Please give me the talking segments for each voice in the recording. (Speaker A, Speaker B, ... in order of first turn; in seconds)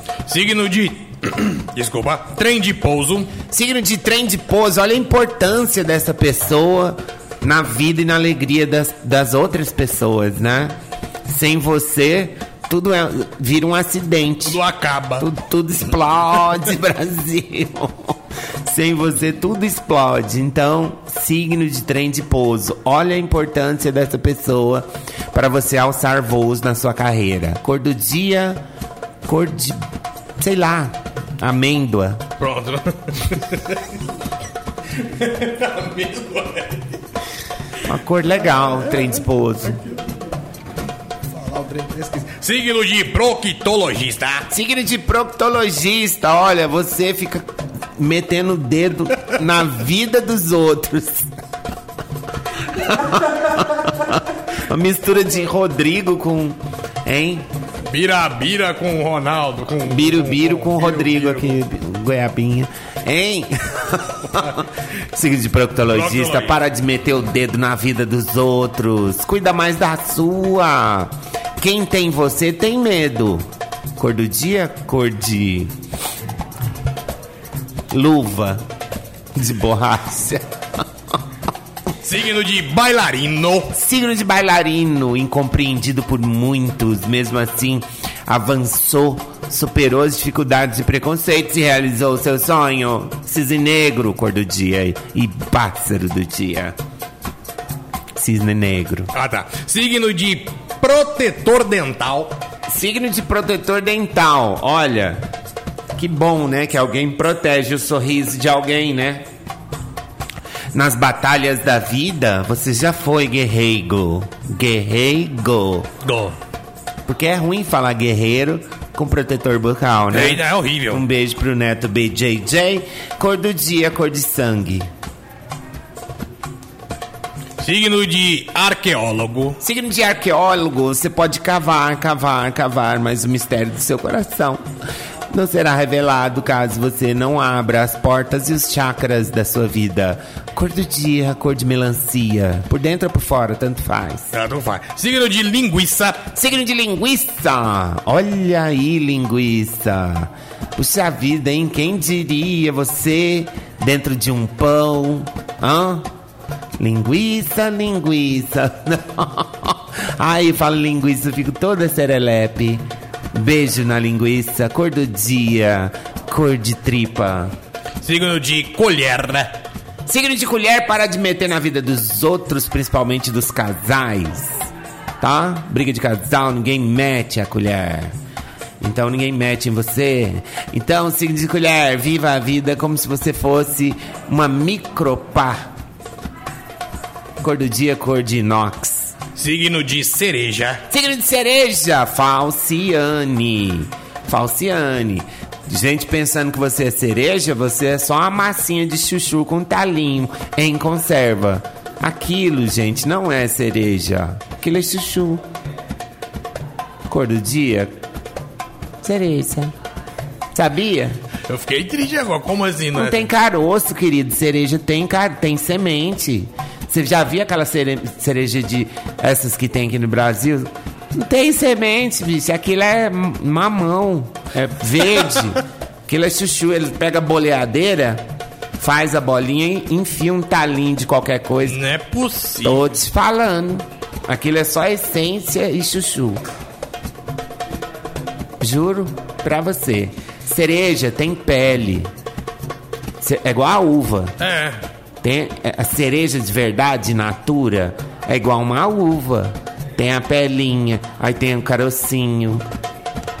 Speaker A: 0.3-3.3, 14.4-15.3, 32.4-33.8, 35.0-37.0, 42.2-44.5, 57.9-61.6, 65.9-66.6, 82.0-83.7, 99.1-102.4, 116.0-116.3, 120.1-121.0, 127.6-129.6, 144.3-146.2, 168.0-169.6, 189.3-190.8, 211.5-213.3, 231.7-232.8, 244.4-244.8
Speaker B: 3.4-14.6, 15.2-28.6, 29.2-29.8, 30.4-32.2, 37.8-39.9, 44.5-51.3, 52.7-57.5, 59.8-75.7, 77.9-78.6, 79.3-80.8, 83.7-96.8, 98.1-99.1, 102.7-105.2, 105.9-109.2, 110.7-115.9, 117.0-124.9, 129.6-134.7, 135.3-144.3, 146.3-156.1, 156.8-167.5, 170.1-174.7, 175.2-178.1, 178.8-185.7, 187.4-189.1, 190.9-205.4, 207.1-207.9, 209.0-209.7, 210.5-211.2, 212.9-228.2, 228.8-231.8, 232.6-236.4, 238.6-242.1, 243.2-244.3, 245.2-252.7